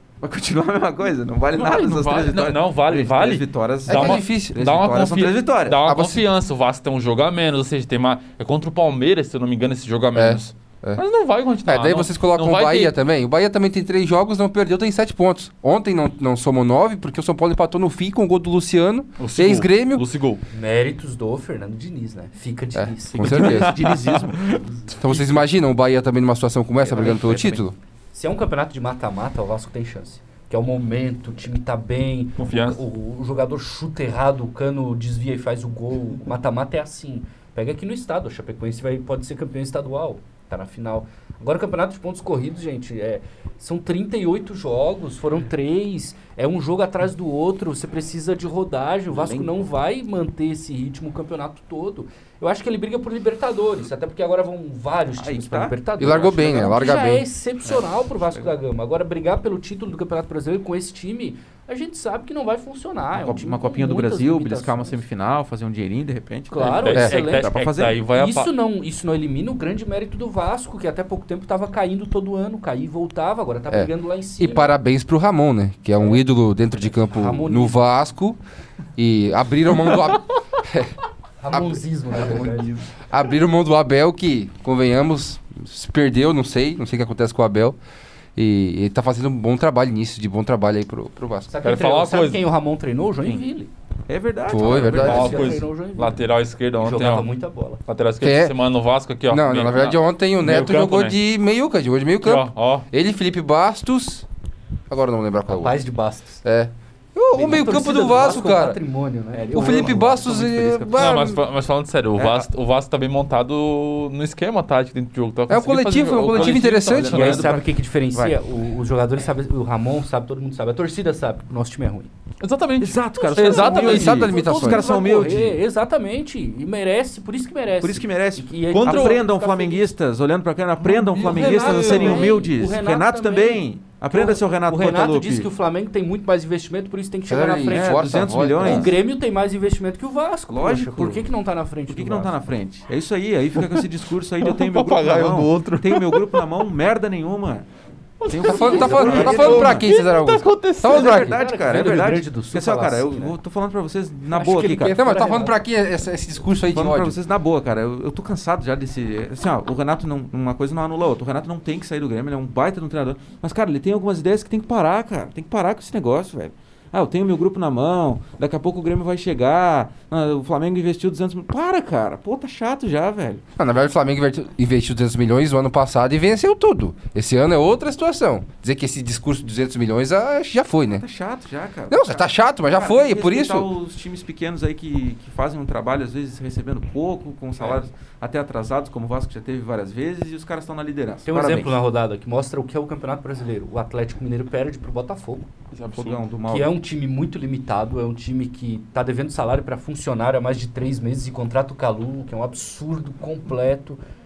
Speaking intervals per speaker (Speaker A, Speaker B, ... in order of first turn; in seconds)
Speaker A: 0.2-5.8, 23.2-25.4, 27.0-27.5, 49.1-49.7, 55.2-56.9, 57.6-58.5, 63.1-68.0, 82.2-82.8, 94.1-95.6, 107.4-107.7, 109.3-111.3, 112.2-112.5, 116.3-118.4, 122.8-125.6, 127.8-135.5, 137.7-138.9, 140.5-141.3, 141.9-147.7, 148.3-149.9, 150.8-155.0, 156.7-173.4, 180.9-191.8, 196.0-196.7
Speaker B: 1.5-12.9, 19.2-20.4, 23.2-24.6, 32.4-32.8, 66.6-68.5, 91.6-92.4, 94.9-97.3, 97.9-101.2, 102.2-102.9, 110.9-117.5, 122.4-124.3, 128.7-129.2, 130.8-132.4, 143.6-143.8, 144.4-146.5, 148.2-151.2, 195.7-196.2
Speaker C: 3.9-4.6, 5.8-6.2, 10.2-11.0, 11.7-20.0, 22.8-23.8, 25.0-27.8, 56.0-57.3, 73.7-78.4, 79.0-80.9, 81.5-82.6, 83.1-87.8, 88.4-91.5, 94.5-95.5, 98.2-98.6, 99.3-104.3, 104.9-105.8, 106.4-108.8, 109.5-111.4, 115.5-117.4, 123.8-124.9, 137.3-138.9, 148.4-151.4, 154.9-157.2, 173.6-181.0, 181.9-183.7
Speaker D: 20.5-23.6, 24.6-24.9, 26.9-27.6, 28.1-65.0, 66.5-67.5, 68.1-74.8, 76.0-76.2, 76.9-77.9, 81.4-82.8, 91.5-93.7, 94.6-96.2, 96.8-97.8, 105.5-106.4, 107.3-110.3, 117.1-122.1, 123.2-129.9, 131.2-142.4, 148.5-149.7, 151.1-153.4, 154.3-155.6, 191.3-195.5, 196.5-204.0